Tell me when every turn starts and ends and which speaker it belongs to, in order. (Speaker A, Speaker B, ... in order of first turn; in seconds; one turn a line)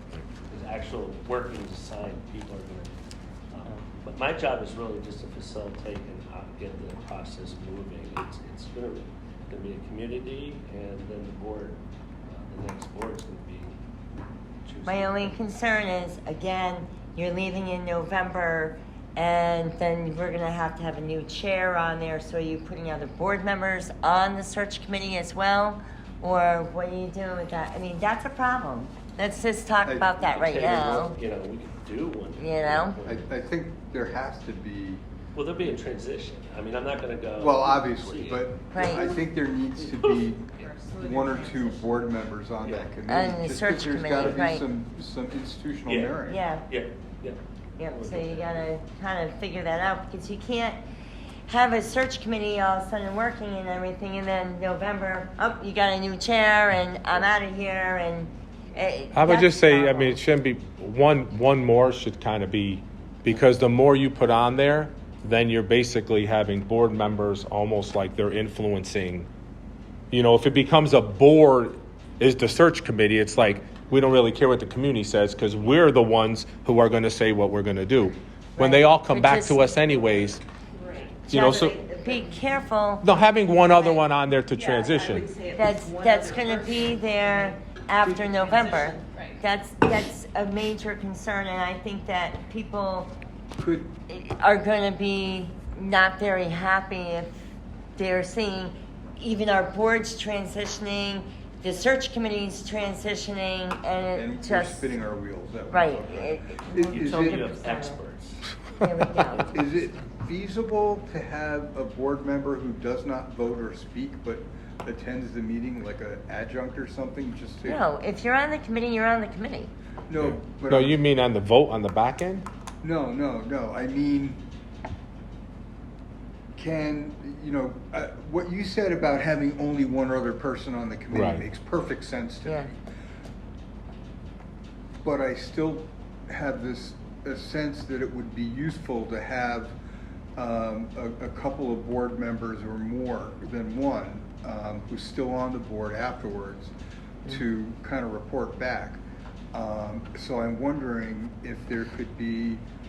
Speaker A: 0.5-2.9
Speaker A: 3.5-13.8
Speaker A: 14.6-15.4
Speaker B: 14.8-31.2
Speaker C: 29.9-30.2
Speaker A: 30.2-33.3
Speaker B: 32.4-33.0
Speaker C: 33.0-35.0
Speaker A: 35.3-38.5
Speaker C: 37.4-46.4
Speaker B: 38.7-39.1
Speaker D: 38.8-39.2
Speaker D: 39.9-42.1
Speaker A: 42.6-42.9
Speaker B: 43.1-44.7
Speaker A: 45.9-48.7
Speaker B: 46.3-46.7
Speaker B: 47.8-50.8
Speaker B: 51.5-60.2
Speaker E: 59.1-69.3
Speaker E: 70.1-80.4
Speaker B: 78.6-79.9
Speaker D: 80.8-82.6
Speaker E: 81.3-81.8
Speaker B: 81.3-84.1
Speaker E: 83.0-85.3
Speaker D: 84.5-89.2
Speaker B: 85.5-93.1
Speaker C: 93.6-93.9
Speaker B: 94.1-97.4
Speaker B: 98.0-104.9
Speaker C: 104.2-107.5
Speaker B: 105.7-108.0
Speaker A: 106.9-108.5
Speaker B: 108.8-109.6
Speaker C: 109.5-117.8
Speaker B: 117.6-119.7
Speaker C: 120.1-121.0
Speaker E: 120.2-122.5
Speaker C: 122.8-124.4
Speaker C: 126.5-132.8
Speaker E: 131.1-131.4
Speaker C: 135.0-139.8
Speaker C: 140.3-146.7
Speaker C: 147.2-149.0
Speaker C: 149.5-152.6